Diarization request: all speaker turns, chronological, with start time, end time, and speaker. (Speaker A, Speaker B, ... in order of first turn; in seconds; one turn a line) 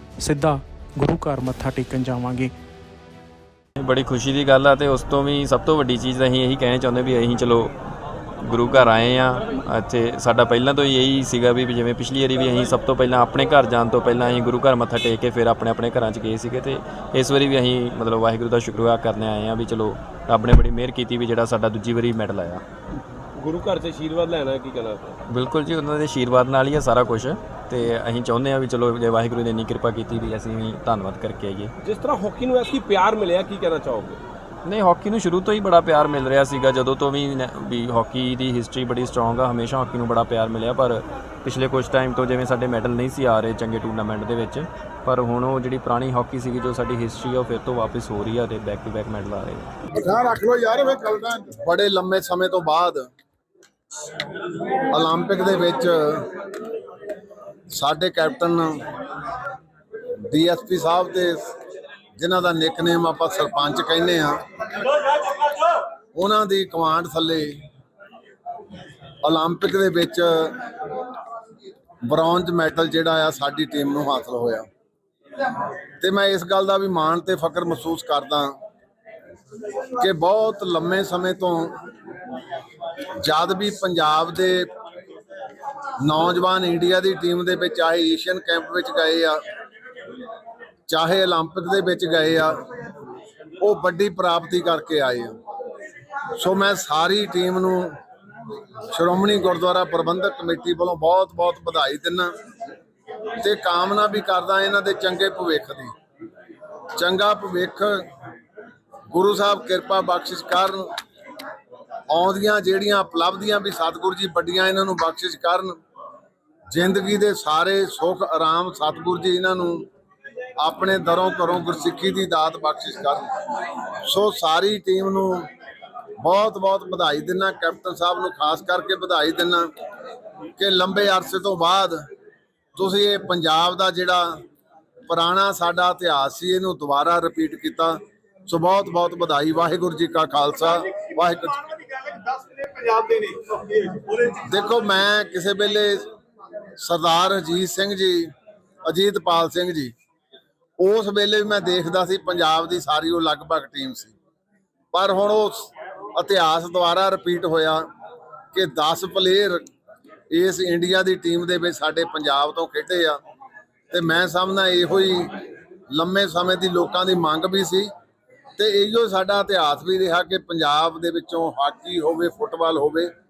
Speaker A: 0.2-2.5
Speaker B: 3.8-7.7
Speaker B: 8.4-22.6
Speaker C: 23.4-25.2
Speaker B: 25.3-31.7
Speaker C: 31.8-34.2
Speaker B: 34.6-49.7
Speaker D: 50.0-53.1
Speaker D: 54.9-56.4
Speaker D: 57.7-58.8
Speaker D: 60.3-61.5
Speaker D: 62.2-64.4
Speaker D: 64.9-65.5
Speaker D: 66.2-67.5
Speaker D: 69.2-70.7
Speaker D: 72.1-74.7
Speaker D: 76.0-78.5
Speaker D: 80.0-81.8
Speaker D: 83.2-84.7
Speaker D: 86.0-89.4
Speaker D: 90.9-92.6
Speaker D: 93.6-95.3
Speaker D: 96.4-98.0
Speaker D: 98.9-102.3
Speaker D: 103.4-105.9
Speaker D: 107.0-108.1
Speaker D: 109.1-110.9
Speaker D: 112.1-115.8
Speaker D: 116.7-119.9
Speaker D: 120.6-123.3
Speaker D: 124.1-125.5
Speaker D: 126.2-129.7
Speaker D: 130.6-132.0
Speaker D: 132.8-134.4
Speaker D: 135.1-146.1
Speaker D: 146.8-148.3
Speaker D: 148.9-149.9
Speaker D: 150.8-154.2
Speaker D: 154.9-157.9
Speaker D: 158.5-159.7
Speaker D: 160.3-163.2
Speaker D: 163.9-165.4
Speaker D: 165.9-167.9
Speaker D: 168.6-173.1